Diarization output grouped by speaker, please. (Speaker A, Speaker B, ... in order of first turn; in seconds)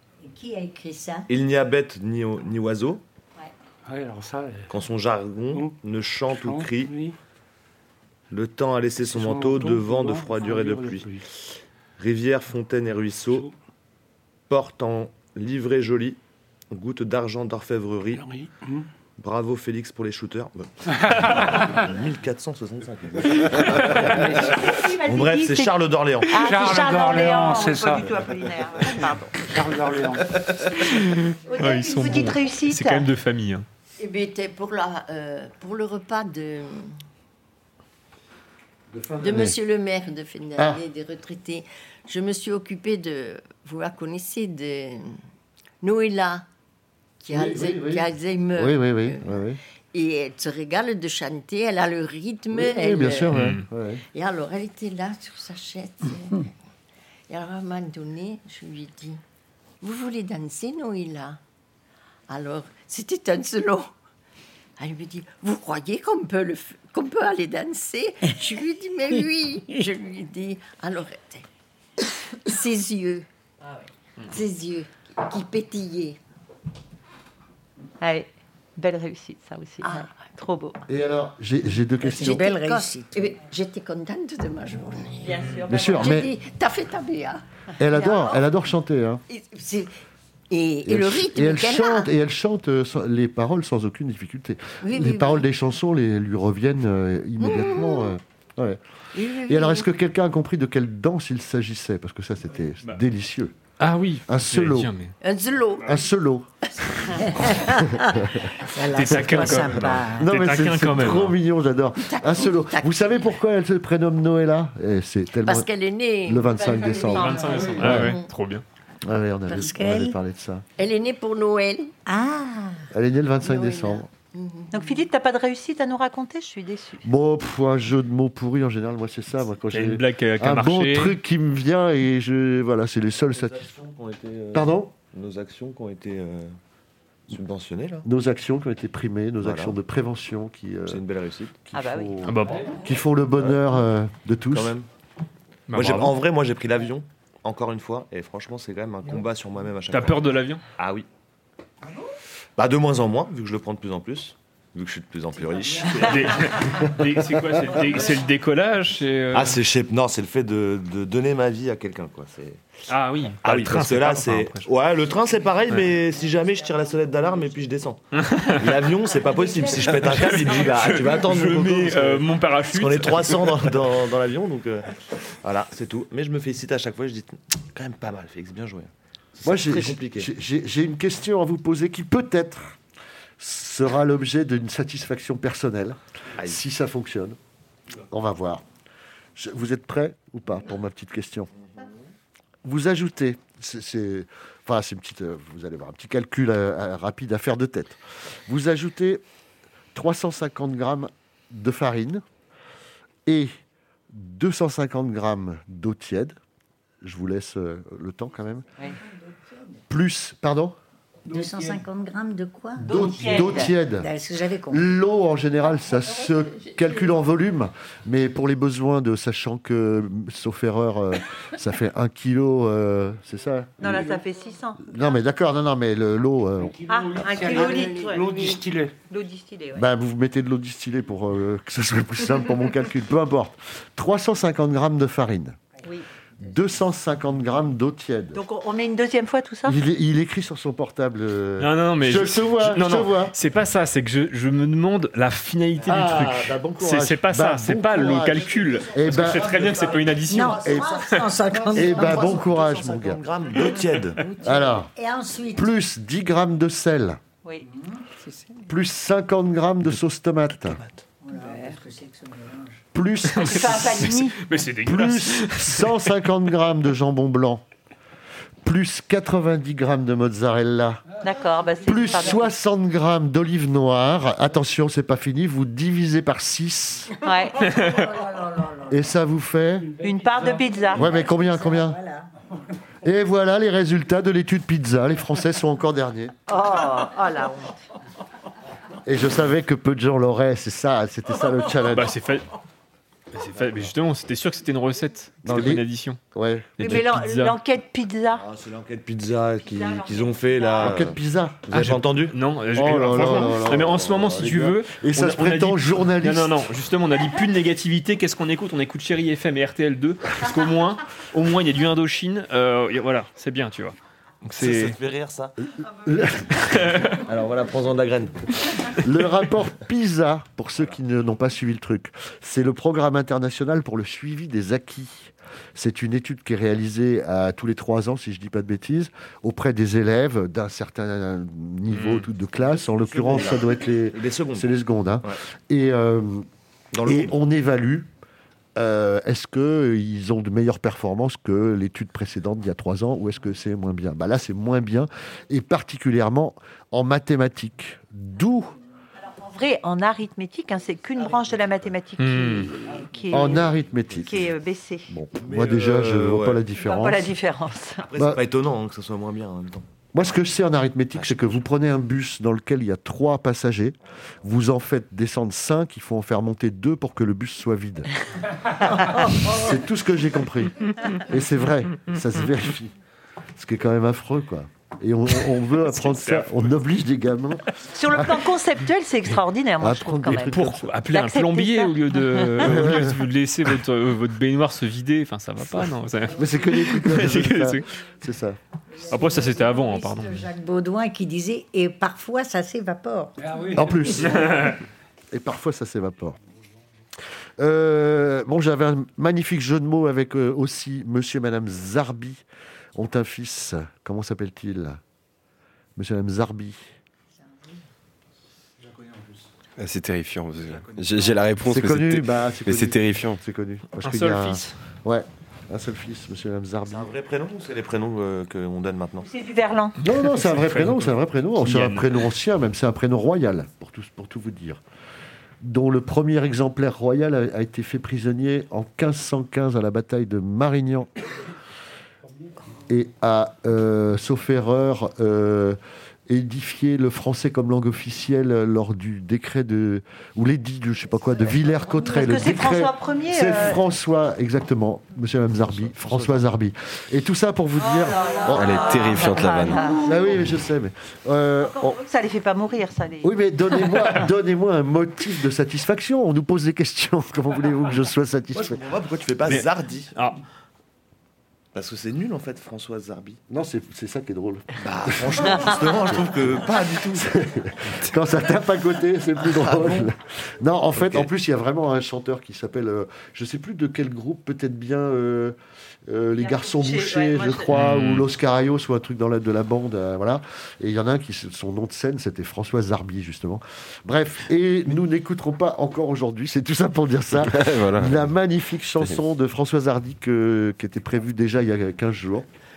Speaker A: 0.2-1.3, 82.0-83.3, 107.3-110.3, 119.5-120.2, 122.1-122.8, 211.3-214.9, 250.3-252.4, 254.4-255.7, 257.7-258.5, 261.2-262.8, 277.7-279.0, 280.9-282.3, 388.9-393.5
Speaker B: 1.3-3.0, 4.7-6.9, 8.3-11.1, 12.0-13.5, 14.5-16.2, 16.7-18.2, 19.2-26.4, 133.2-136.5, 137.3-138.1, 139.4-139.8, 140.9-141.6, 144.5-144.9, 145.7-151.1, 152.6-156.7, 159.3-162.6, 163.4-174.9, 175.4-180.3, 251.6-254.3, 298.3-301.2, 301.7-302.4, 314.4-315.6, 317.2-318.5, 333.0-334.7, 336.9-337.3, 355.4-356.7, 358.0-359.9, 361.1-361.6, 416.9-419.3, 445.7-446.4, 458.5-460.1, 461.7-463.4, 464.8-467.3, 469.5-470.0, 471.0-471.3
Speaker C: 3.9-4.7, 6.3-7.2, 9.0-11.2, 18.1-18.9, 20.9-21.9, 26.3-28.1, 29.4-30.4, 223.8-224.2, 226.6-228.9, 279.8-281.0, 393.4-394.2
Speaker D: 23.6-24.0, 30.9-33.7, 53.3-53.6, 103.8-105.2, 108.9-111.3, 117.1-118.6, 129.7-131.2, 142.2-142.7, 145.7-146.2, 149.9-150.6, 156.0-159.6, 162.9-164.7, 168.2-168.7, 169.9-173.6, 241.6-251.3, 263.3-266.1, 291.9-292.4, 293.3-296.2, 296.8-297.6, 301.7-314.0, 314.5-315.0, 316.6-317.2, 331.9-332.3, 352.2-352.7, 375.8-376.7, 380.4-387.9, 389.1-390.5, 394.2-394.7, 414.0-414.8, 420.4-422.2, 459.5-460.4, 477.7-478.2
Speaker E: 24.2-29.4, 31.5-33.1, 78.0-80.8, 85.2-86.2, 88.0-88.3, 117.1-117.8, 124.7-127.0, 141.7-142.2, 212.8-213.8, 223.8-225.1, 226.9-228.6, 229.1-229.9, 238.3-239.8, 263.4-264.4, 271.2-272.5, 277.2-277.7, 280.0-281.1, 286.5-287.8, 296.8-298.4, 299.6-301.0, 349.2-355.1, 356.8-358.1, 377.9-380.6, 381.1-382.7, 419.2-420.0, 442.0-443.8, 447.8-450.3, 451.6-454.1, 476.4-477.8
Speaker F: 34.0-36.9, 39.2-45.2, 45.8-46.5, 47.2-49.3, 49.9-53.4, 54.1-56.5, 57.3-59.2, 59.8-61.4, 62.3-63.9, 64.8-71.5, 72.3-73.3, 74.3-76.2, 79.8-80.3, 82.1-87.4, 89.3-90.0, 90.5-92.1, 94.8-95.5, 97.4-98.1, 99.2-99.9, 105.2-106.0, 112.0-113.3, 115.5-118.3, 120.8-121.9, 123.4-124.9, 227.3-228.6
Speaker G: 38.9-39.6, 40.6-40.8, 47.3-49.6, 52.5-54.0, 80.9-82.5, 85.7-86.3, 87.8-89.2, 90.9-98.8, 99.5-103.5, 104.3-104.9, 105.8-106.5, 107.7-108.1, 110.2-115.7, 116.2-118.2, 119.0-120.7, 122.9-124.1, 127.0-133.7, 134.5-134.9, 138.0-141.0, 141.7-144.8, 179.4-182.8, 183.4-187.4, 188.1-188.6, 189.4-191.5, 192.6-199.2, 199.9-202.2, 203.3-203.5, 204.1-206.4, 207.0-208.7, 209.9-210.8, 212.8-214.1, 214.7-224.0, 224.9-226.8, 229.8-235.6, 236.4-238.4, 239.7-243.3, 245.8-249.6, 250.4-251.0, 251.7-253.2, 254.4-254.9, 255.6-257.2, 258.7-260.8, 262.9-264.1, 264.9-267.6, 268.6-271.0, 271.8-277.1, 278.9-279.9, 280.9-282.0, 283.0-286.3, 289.1-292.1, 295.4-296.8, 300.8-301.6, 302.7-306.6, 315.8-316.8, 319.0-336.5, 337.1-338.1, 338.8-348.8, 353.3-354.5, 355.1-357.3, 360.1-368.1, 369.2-372.9, 373.6-378.4, 379.8-380.9, 382.6-383.2, 386.3-388.6, 393.7-394.8, 395.3-396.4, 397.6-402.4, 402.9-405.0, 406.0-406.8, 411.6-417.1, 420.0-424.8, 425.6-431.1, 432.9-449.2, 449.9-452.0, 453.2-458.8, 463.5-466.4, 467.2-492.5
Speaker H: 409.8-413.4, 448.5-449.8, 487.5-488.2